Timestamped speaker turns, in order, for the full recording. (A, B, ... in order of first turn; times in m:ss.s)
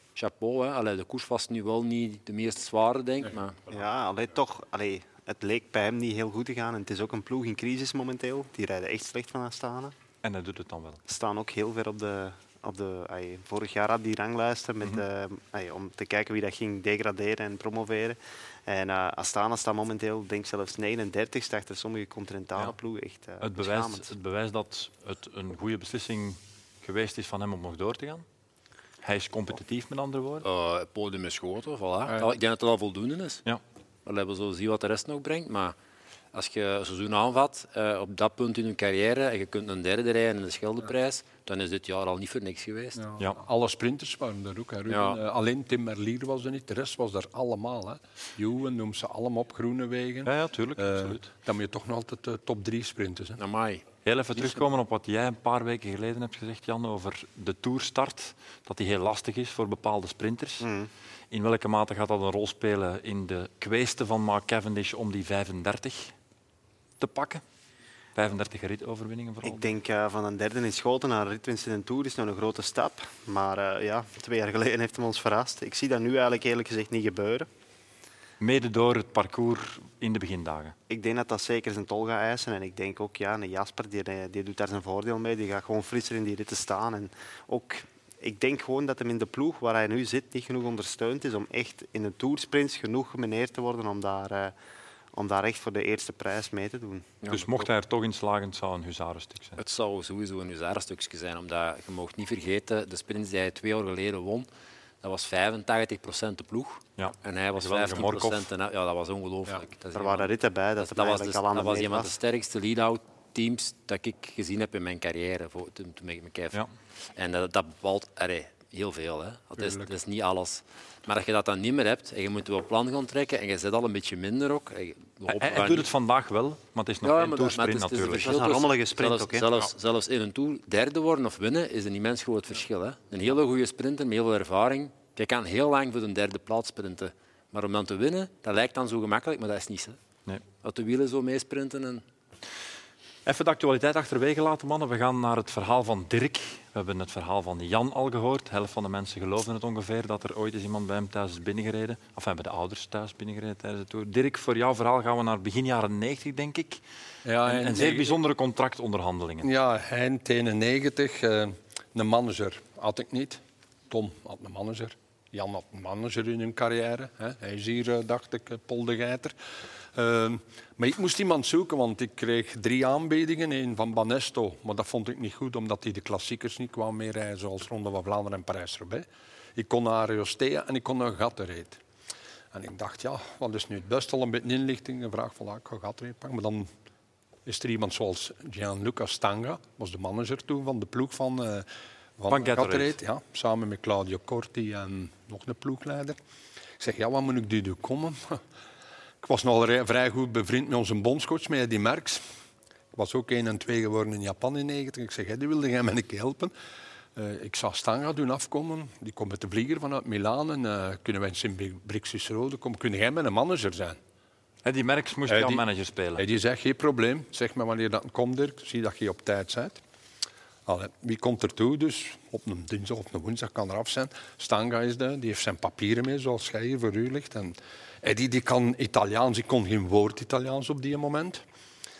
0:00.2-0:03.6 A
0:03.7-0:09.9 B
0:10.2-0:11.0 C
0:11.1-0:24.1 B
0:23.4-0:28.2 C
0:29.0-0:30.4 C
0:30.4-0:33.4 A
0:34.1-0:35.8 A
0:36.3-0:43.0 A
0:43.0-0:53.4 D
0:44.9-0:45.2 A
0:50.2-0:51.3 C
0:53.4-0:53.8 A
0:54.0-1:00.7 C
0:54.4-0:54.6 A
1:00.6-1:00.9 B
1:01.3-1:06.1 C
1:07.0-1:07.4 C
1:08.2-1:09.7 C
1:09.4-1:17.5 B
1:18.4-1:20.8 C
1:20.9-1:34.6 B
1:35.1-1:37.1 B
1:37.3-1:39.6 C
1:39.6-1:44.5 A
1:45.0-1:56.6 A
1:47.0-1:48.5 C
1:50.0-1:52.2 B
1:57.2-2:05.9 A
1:59.6-1:59.9 D
2:05.3-2:08.3 C
2:07.0-2:20.0 A
2:08.2-2:09.4 B
2:20.6-2:22.0 A
2:23.3-2:36.8 C
2:37.2-2:38.2 D
2:37.4-2:39.5 C
2:39.4-2:49.4 D
2:49.9-3:01.8 D
3:02.5-3:06.7 D
3:07.5-3:11.7 D
3:12.2-3:16.2 D
3:12.3-3:13.0 C
3:16.8-3:18.4 D
3:19.2-3:22.2 D
3:22.9-3:26.5 D
3:27.2-3:34.0 D
3:34.6-3:36.3 C
3:35.3-3:35.6 D
3:36.2-3:39.8 D
3:40.7-3:51.4 D